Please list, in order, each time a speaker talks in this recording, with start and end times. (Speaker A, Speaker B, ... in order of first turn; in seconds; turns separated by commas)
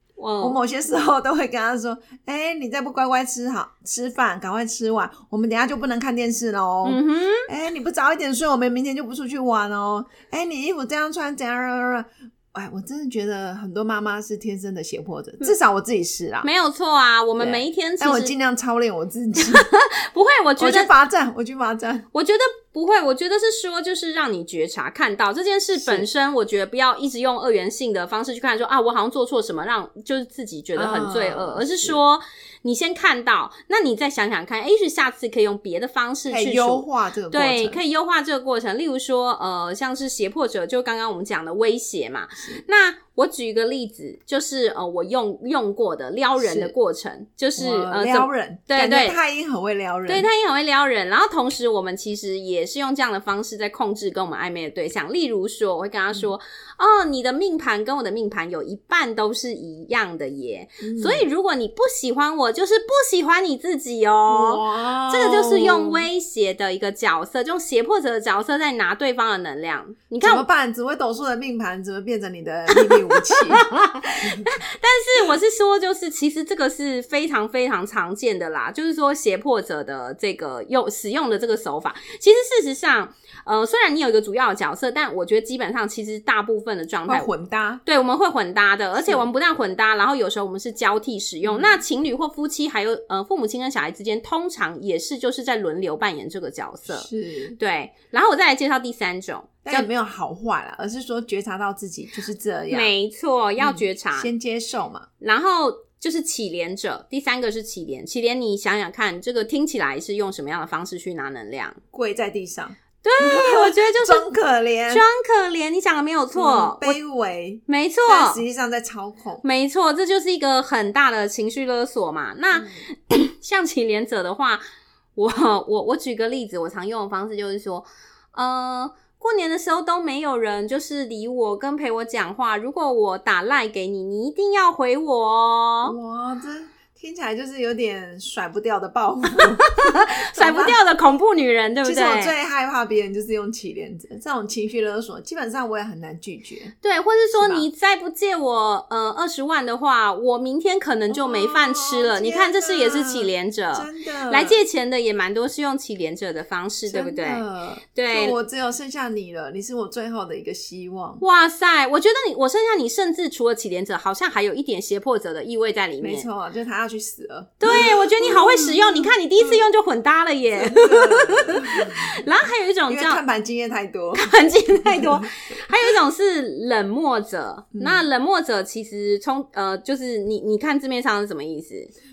Speaker A: 0.2-0.6, Speaker B: 0.4-16.5, Speaker A: 6.8-7.5, Speaker A: 16.4-18.3, Speaker B: 17.4-19.6, Speaker A: 19.4-20.9, Speaker B: 20.6-22.0, Speaker A: 22.1-49.2, Speaker B: 25.8-26.1, Speaker B: 30.7-32.0, Speaker B: 36.3-37.8, Speaker B: 46.4-46.7, Speaker B: 47.5-50.3, Speaker A: 50.1-70.5, Speaker B: 60.8-61.2, Speaker B: 64.3-66.0, Speaker B: 70.2-73.7, Speaker A: 72.7-87.3, Speaker B: 87.1-87.8, Speaker A: 87.8-99.9, Speaker B: 89.0-89.3, Speaker B: 91.4-91.8, Speaker B: 96.9-97.6, Speaker B: 99.6-102.9, Speaker A: 102.7-104.3, Speaker B: 103.6-105.0, Speaker A: 105.2-111.8, Speaker B: 111.9-115.0, Speaker A: 113.0-114.3, Speaker A: 114.9-117.0, Speaker B: 116.3-119.4, Speaker A: 117.7-118.4, Speaker A: 119.4-124.6, Speaker B: 122.5-122.8, Speaker A: 125.2-136.0, Speaker B: 135.8-140.8, Speaker A: 139.4-142.3, Speaker B: 141.8-146.7, Speaker A: 146.8-158.4, Speaker B: 147.3-147.7, Speaker B: 151.1-154.6, Speaker B: 156.8-161.2, Speaker A: 161.2-166.3, Speaker B: 166.0-169.6, Speaker A: 167.6-173.2, Speaker B: 170.6-172.0, Speaker B: 172.9-175.2, Speaker A: 174.1-181.9, Speaker B: 177.7-178.1